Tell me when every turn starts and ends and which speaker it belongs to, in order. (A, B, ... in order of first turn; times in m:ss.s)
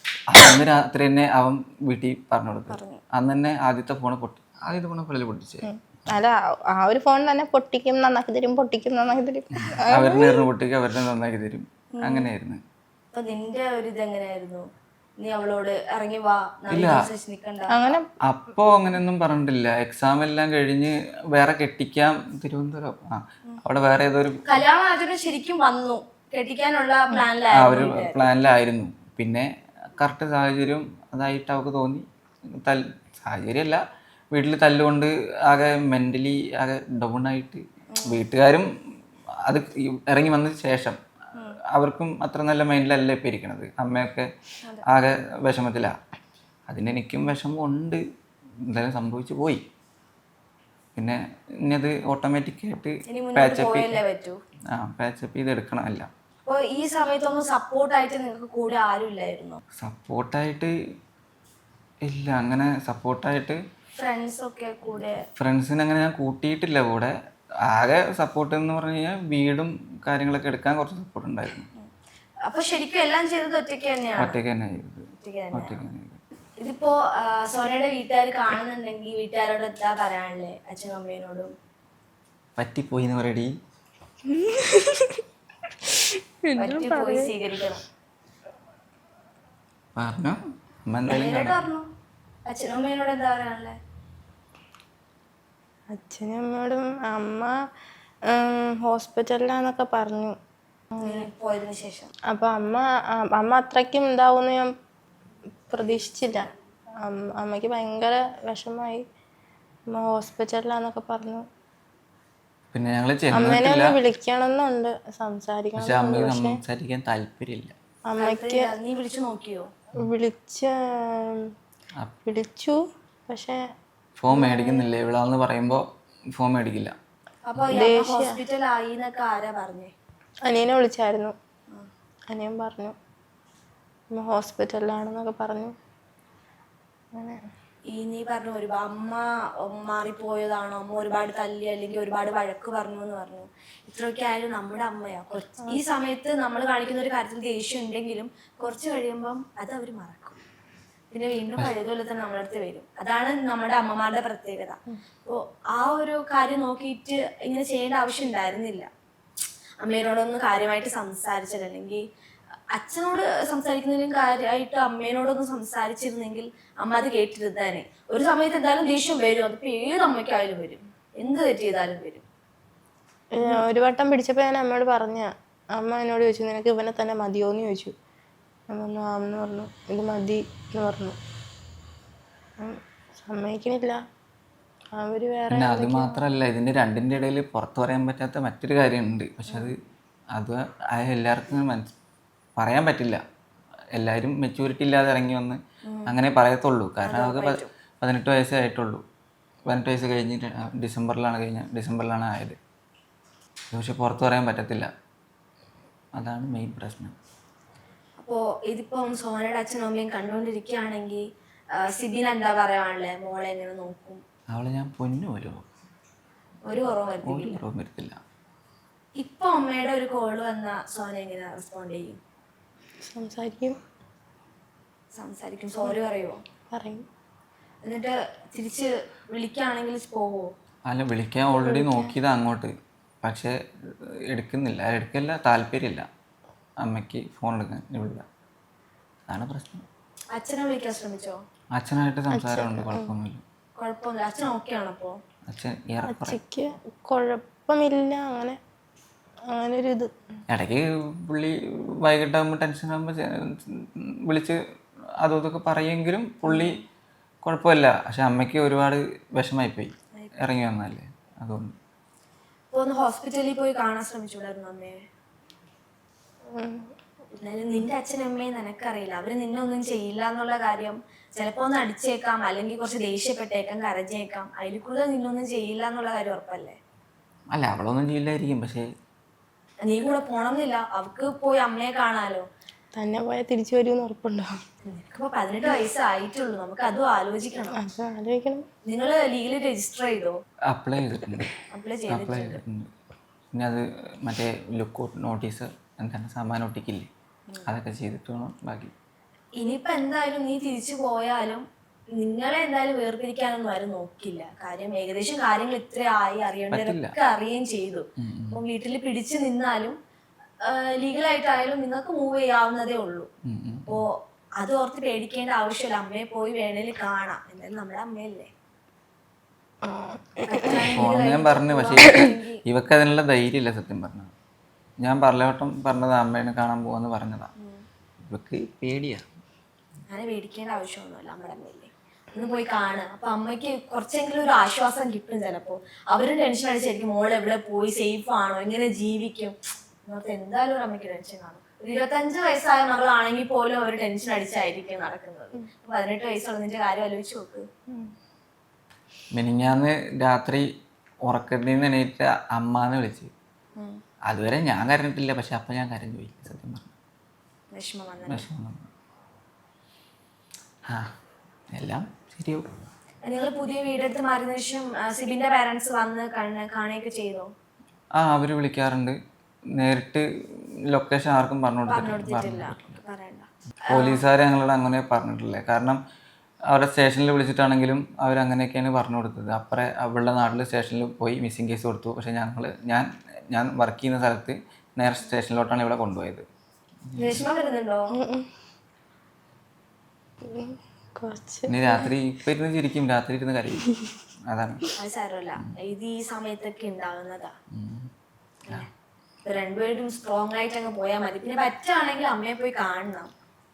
0:00.3-0:05.6 A
0:02.7-0:03.0 B
0:05.6-0:10.5 C
0:09.9-0:12.6 A
0:12.0-0:12.3 B
0:13.1-0:14.6 B
0:15.2-0:17.7 B
0:16.7-0:17.0 A
0:17.7-0:18.1 C
0:18.2-0:24.4 A
0:24.5-0:28.3 B
0:27.5-0:38.7 A
0:37.9-0:38.2 B
0:39.5-0:41.0 A
0:41.7-0:44.3 A
0:44.8-0:46.0 A
0:46.7-0:48.0 A
0:48.7-0:49.6 A
0:51.0-0:54.0 A
0:53.1-0:54.4 B
0:54.7-0:56.1 A
0:56.4-0:59.6 B
0:59.8-1:00.7 A
1:02.0-1:03.6 A
1:04.0-1:05.2 B
1:05.4-1:07.1 A
1:07.7-1:11.7 A
1:12.4-1:14.4 B
1:14.2-1:16.2 A
1:15.2-1:15.8 B
1:16.6-1:21.5 B
1:22.6-1:23.5 A
1:24.2-1:25.2 C
1:26.4-1:27.3 C
1:26.6-1:27.8 B
1:29.9-1:31.6 A
1:31.1-1:31.9 B
1:32.4-1:33.8 B
1:35.9-1:37.5 C
1:38.3-1:40.3 C
1:41.0-1:41.2 C
1:41.0-1:42.1 B
1:42.3-1:44.7 C
1:45.7-1:49.0 C
1:49.9-1:51.4 C
1:52.7-1:54.0 A
1:53.3-1:56.6 C
1:55.8-1:57.7 A
1:58.1-1:58.7 C
1:58.2-1:59.7 B
2:00.0-2:01.5 C
2:02.2-2:03.6 C
2:04.2-2:05.8 A
2:04.3-2:04.8 C
2:06.3-2:06.9 A
2:07.4-2:09.9 B
2:07.7-2:08.4 C
2:10.4-2:11.3 C
2:12.3-2:12.9 C
2:14.1-2:15.7 C
2:17.1-2:17.4 C
2:17.9-2:30.4 B
2:31.1-2:38.9 B
2:39.8-2:42.0 B
2:42.7-2:52.2 B
2:53.3-2:57.9 C
2:58.7-3:01.2 C
3:02.6-3:04.0 C
3:04.9-3:06.2 C
3:05.5-3:09.7 A
3:10.3-3:11.9 A
3:12.6-3:13.2 A
3:13.9-3:19.0 A
3:15.8-3:16.1 B
3:17.0-3:17.7 B
3:19.7-3:22.6 A
3:23.7-3:24.9 A
3:26.2-3:27.1 A
3:28.2-3:31.2 B
3:31.8-3:34.2 B
3:34.5-3:35.6 A
3:36.6-3:37.6 B
3:37.2-3:38.2 A
3:39.2-3:42.2 B
3:43.0-3:43.8 C
3:45.1-3:46.4 B
3:46.7-3:47.0 C
3:47.8-3:50.5 B
3:50.9-3:53.6 A
3:51.5-3:52.1 C
3:54.3-3:56.1 A
3:56.8-3:58.2 A
3:59.3-3:59.8 A
4:00.3-4:01.4 B
4:01.8-4:03.4 A
4:02.3-4:03.1 C
4:03.8-4:05.2 B
4:05.5-4:06.4 A
4:06.1-4:08.6 C
4:09.5-4:10.1 C
4:10.5-4:14.6 A
4:15.2-4:16.8 A
4:17.4-4:21.7 A
4:22.7-4:25.0 B
4:26.5-4:26.9 C
4:27.4-4:36.8 B
4:37.5-4:38.9 A
4:39.8-4:42.4 B
4:43.0-4:44.6 C
4:44.8-4:47.7 B
4:47.7-4:48.7 C
4:48.8-4:50.4 B
4:50.7-4:51.5 A
4:51.7-4:52.6 B
4:52.1-4:52.9 A
4:53.5-4:57.1 A
4:57.6-4:58.9 A
4:59.6-5:01.6 B
5:02.2-5:10.0 B
5:06.7-5:07.1 A
5:08.2-5:08.6 A
5:10.6-5:13.3 B
5:13.4-5:14.0 A
5:14.6-5:18.5 B
5:19.8-5:21.0 C
5:20.4-5:22.6 B
5:20.9-5:24.3 A
5:25.0-5:27.5 A
5:27.6-5:27.8 B
5:28.2-5:29.2 A
5:30.1-5:47.6 B
5:49.3-5:50.6 A
5:51.2-5:53.3 A
5:54.3-5:56.9 A
5:57.7-5:58.5 B
5:58.2-5:58.9 A
6:01.7-6:02.6 A
6:03.2-6:07.5 B
6:08.2-6:09.2 A
6:09.8-6:10.2 A
6:10.9-6:12.9 A
6:11.9-6:14.2 B
6:13.9-6:16.0 A
6:16.7-6:26.4 A
6:27.1-6:27.4 A
6:27.2-6:28.1 B
6:28.1-6:28.5 C
6:30.5-6:32.1 C
6:31.7-6:33.9 A
6:34.5-6:34.8 A
6:35.0-6:37.5 B
6:37.7-6:38.1 A
6:39.4-6:43.3 B